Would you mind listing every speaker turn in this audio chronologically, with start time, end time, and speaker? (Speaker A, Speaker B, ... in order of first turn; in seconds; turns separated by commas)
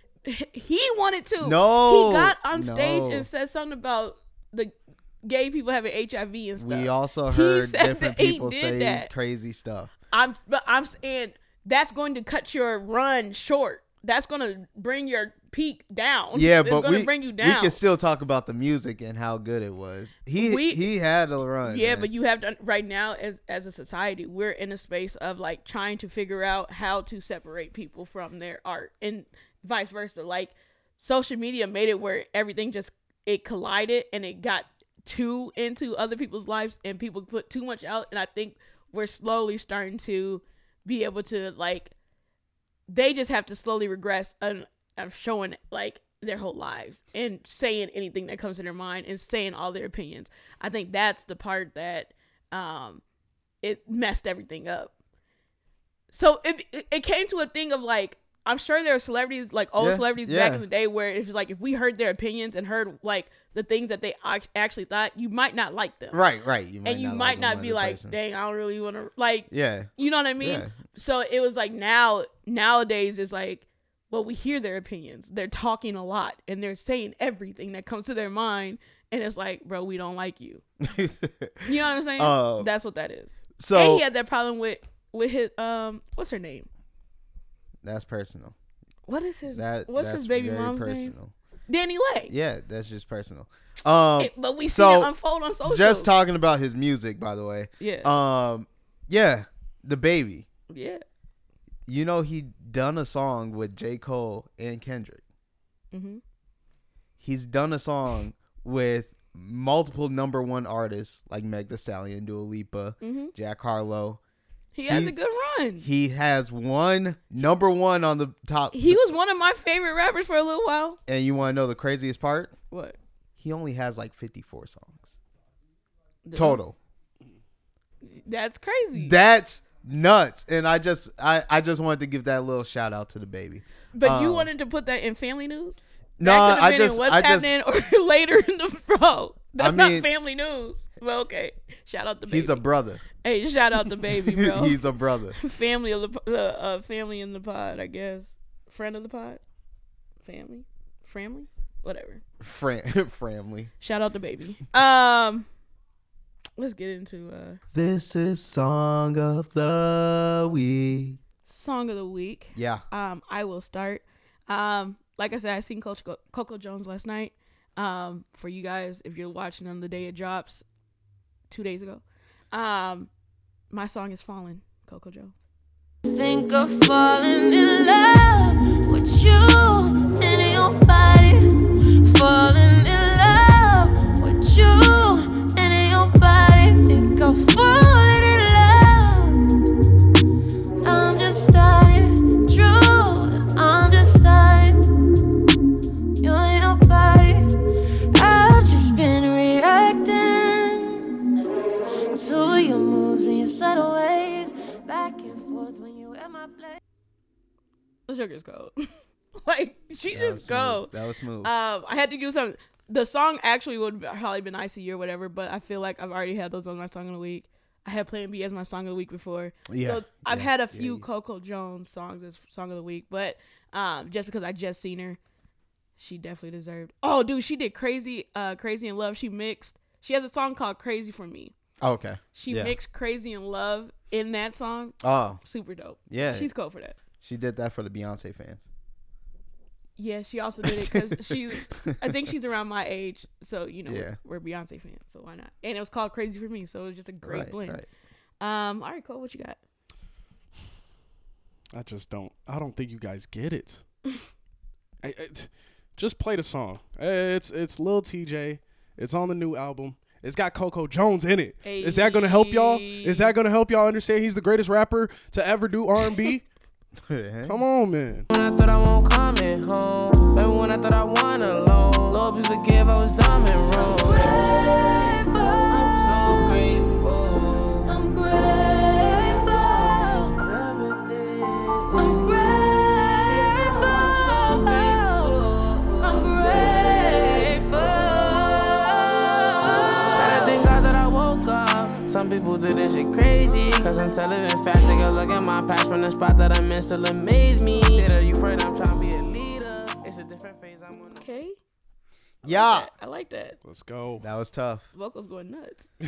Speaker A: 0.2-9.1, Speaker B: 1.4-3.3, Speaker B: 6.6-9.9, Speaker A: 10.1-17.8, Speaker B: 16.3-22.1, Speaker A: 20.4-20.9, Speaker A: 21.6-41.9, Speaker A: 42.9-53.0, Speaker A: 53.6-54.9, Speaker A: 56.1-66.2, Speaker B: 59.8-60.6, Speaker B: 66.1-68.2, Speaker A: 66.8-80.6, Speaker B: 69.5-70.7, Speaker B: 80.8-82.7, Speaker A: 81.7-86.7, Speaker B: 83.6-84.0, Speaker B: 87.8-88.5, Speaker A: 89.1-91.2, Speaker B: 89.5-91.3, Speaker A: 91.7-92.3, Speaker B: 92.3-95.1, Speaker A: 94.2-96.1, Speaker B: 95.7-100.5, Speaker A: 97.8-98.1, Speaker A: 100.7-101.0, Speaker B: 101.9-105.2, Speaker A: 105.9-106.2, Speaker B: 107.2-114.2, Speaker A: 113.0-113.3, Speaker A: 114.7-115.9, Speaker B: 114.9-115.2, Speaker B: 115.8-119.0, Speaker A: 118.7-121.0, Speaker B: 121.1-122.5, Speaker A: 122.7-123.0, Speaker B: 123.4-125.1, Speaker A: 126.2-126.6, Speaker B: 126.4-126.8, Speaker A: 128.0-129.2, Speaker B: 128.9-134.5, Speaker A: 133.9-149.4, Speaker B: 136.2-137.5, Speaker B: 139.6-140.1, Speaker B: 142.3-143.0, Speaker B: 144.1-145.4, Speaker A: 150.2-152.2, Speaker B: 152.4-153.7, Speaker A: 153.8-155.5, Speaker A: 156.6-157.6, Speaker B: 157.7-161.2, Speaker A: 161.5-170.7, Speaker B: 162.6-162.8, Speaker A: 171.5-173.1, Speaker A: 173.7-175.3, Speaker C: 176.1-189.4, Speaker C: 190.8-194.8, Speaker C: 196.2-197.5, Speaker C: 198.1-201.1, Speaker C: 202.2-206.8, Speaker A: 208.1-208.8, Speaker A: 209.3-210.9, Speaker B: 210.1-211.5, Speaker A: 211.4-225.2, Speaker B: 219.7-221.1, Speaker A: 226.0-231.5, Speaker B: 231.8-232.8, Speaker A: 232.3-237.0, Speaker B: 235.0-235.4, Speaker B: 236.1-236.5, Speaker B: 237.2-238.7, Speaker A: 240.0-247.8, Speaker B: 240.7-242.0, Speaker B: 243.9-244.2, Speaker B: 247.2-247.9, Speaker A: 248.4-249.6, Speaker D: 251.7-253.8, Speaker D: 255.0-266.4, Speaker A: 261.6-263.4, Speaker B: 267.1-267.6, Speaker D: 267.5-268.3, Speaker E: 268.3-274.5, Speaker C: 273.8-276.6, Speaker E: 275.7-278.0, Speaker C: 277.9-280.4, Speaker E: 280.3-282.3, Speaker C: 281.9-285.4, Speaker E: 283.4-286.5, Speaker C: 286.0-290.6, Speaker E: 290.1-301.3, Speaker A: 297.7-298.1, Speaker A: 301.2-301.6, Speaker A: 302.4-303.6, Speaker B: 302.4-302.9, Speaker D: 303.6-304.2, Speaker B: 304.2-304.9, Speaker A: 304.9-305.9